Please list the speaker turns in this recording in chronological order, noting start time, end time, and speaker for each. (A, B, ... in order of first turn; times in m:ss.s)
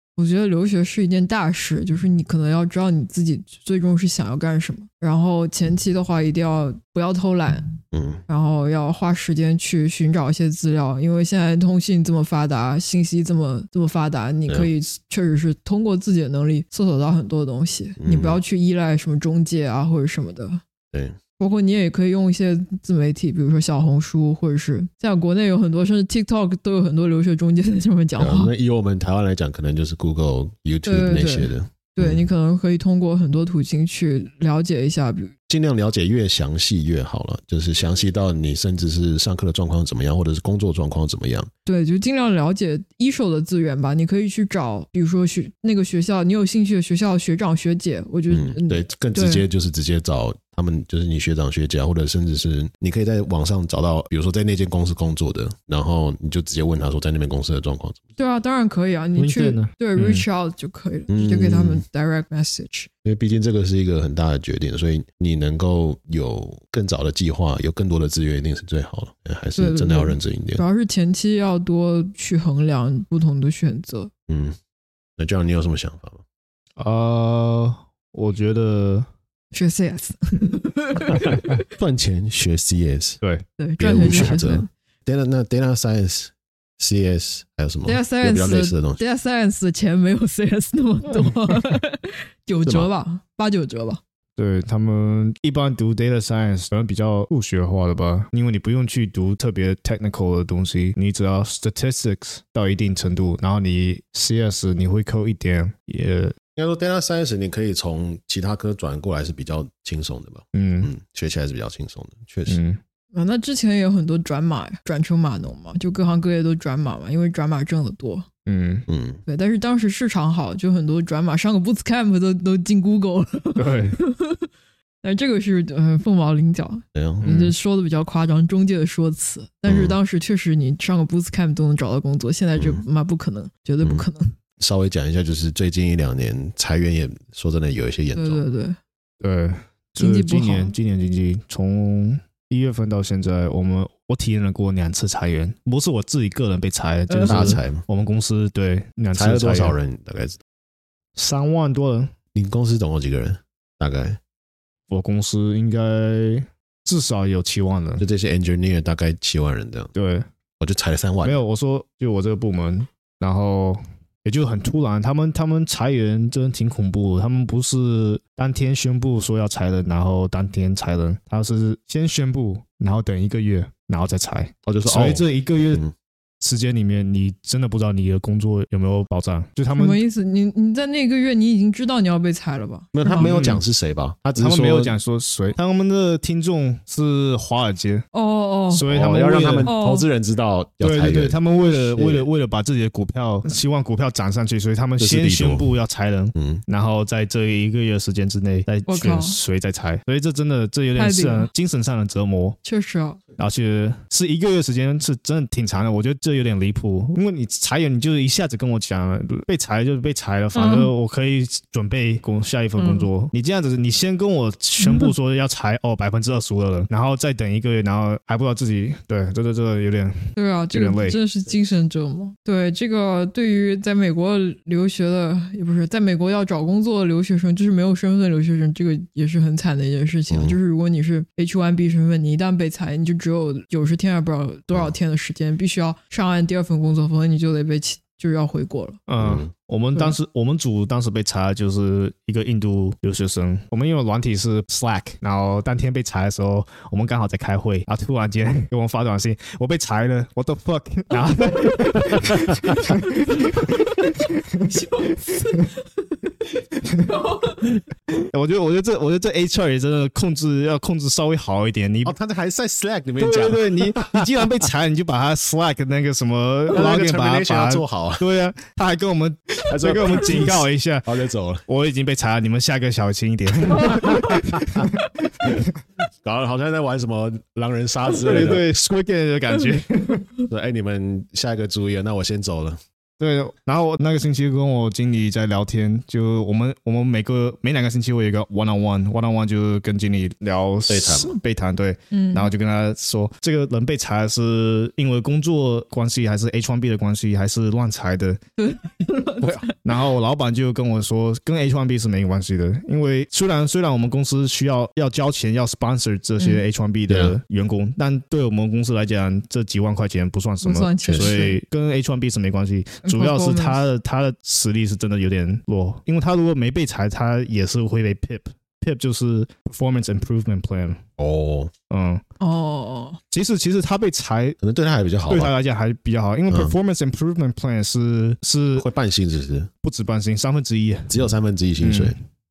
0:00.2-0:20.6 A
0:07.9-0:08.2 B
0:18.0-0:18.4 B
0:21.4-0:28.5 A
0:28.2-0:32.2 B
0:30.8-0:35.3 A
0:35.5-0:41.5 B
0:41.6-0:49.4 A
0:48.3-0:58.0 B
0:58.2-1:02.9 A
0:59.2-1:00.2 C
1:01.1-1:01.8 B
1:03.0-1:10.6 B
1:09.6-1:14.1 A
1:14.3-1:14.6 B
1:15.2-1:16.2 B
1:16.8-1:19.1 C
1:19.5-1:21.6 A
1:21.7-1:23.2 B
1:23.6-1:24.7 A
1:23.8-1:29.0 B
1:24.0-1:24.4 C
1:27.8-1:34.0 A
1:34.4-1:46.3 C
1:46.6-1:52.6 B
1:50.5-1:50.9 C
1:52.5-1:52.8 C
1:53.1-1:58.2 A
1:58.4-1:58.8 C
1:58.9-1:59.2 B
1:59.3-2:04.5 A
2:03.6-2:04.0 C
2:05.0-2:14.3 A
2:06.9-2:07.2 B
2:07.2-2:07.6 C
2:09.6-2:10.0 B
2:12.6-2:12.8 B
2:14.6-2:18.4 B
2:18.1-2:18.8 A
2:19.2-2:29.8 C
2:20.0-2:20.7 A
2:27.1-2:27.6 A
2:27.2-2:27.8 B
2:29.1-2:30.4 B
2:31.2-2:32.1 C
2:32.3-2:34.2 B
2:34.9-2:38.0 C
2:38.0-2:39.9 B
2:39.9-2:40.3 C
2:40.6-2:41.4 B
2:41.2-2:55.8 C
2:54.6-2:55.9 B
2:56.4-3:00.0 C
2:59.7-3:03.3 A
3:02.9-3:04.9 B
3:03.2-3:03.6 C
3:04.3-3:08.0 C
3:08.1-3:08.8 A
3:08.7-3:09.7 C
3:08.9-3:12.3 B
3:09.6-3:10.0 A
3:10.8-3:22.6 C
3:15.0-3:15.7 B
3:16.3-3:16.6 B
3:18.9-3:19.4 A
3:21.0-3:21.5 A
3:22.6-3:23.2 A
3:23.4-3:41.2 C
3:30.5-3:30.9 A
3:32.8-3:33.1 A
3:34.8-3:35.1 A
3:40.3-3:59.0 A
3:50.3-3:50.6 B
3:59.1-4:15.7 C
3:59.2-3:59.5 B
4:14.7-4:15.7 A
4:16.4-4:22.1 C
4:17.1-4:17.6 A
4:22.0-4:24.5 B
4:23.2-4:31.1 C
4:26.7-4:28.3 B
4:29.7-4:31.6 B
4:31.7-4:35.8 C
4:33.8-4:34.9 B
4:36.2-4:38.7 B
4:38.2-4:40.3 C
4:40.5-4:42.8 B
4:43.2-4:58.4 C
4:50.9-4:51.3 B
4:52.1-4:52.5 A
4:58.6-4:59.7 A
4:59.5-5:21.0 C
5:07.1-5:07.4 B
5:10.6-5:11.6 A
5:11.0-5:11.3 B
5:13.0-5:13.8 A
5:21.2-5:21.7 B
5:21.9-5:22.2 C
5:22.4-5:23.2 A
5:23.3-5:24.6 C
5:24.6-5:25.5 B
5:25.3-5:28.8 C
5:28.8-5:29.7 B
5:29.8-5:31.1 C
5:31.1-5:32.2 B
5:31.8-5:32.2 C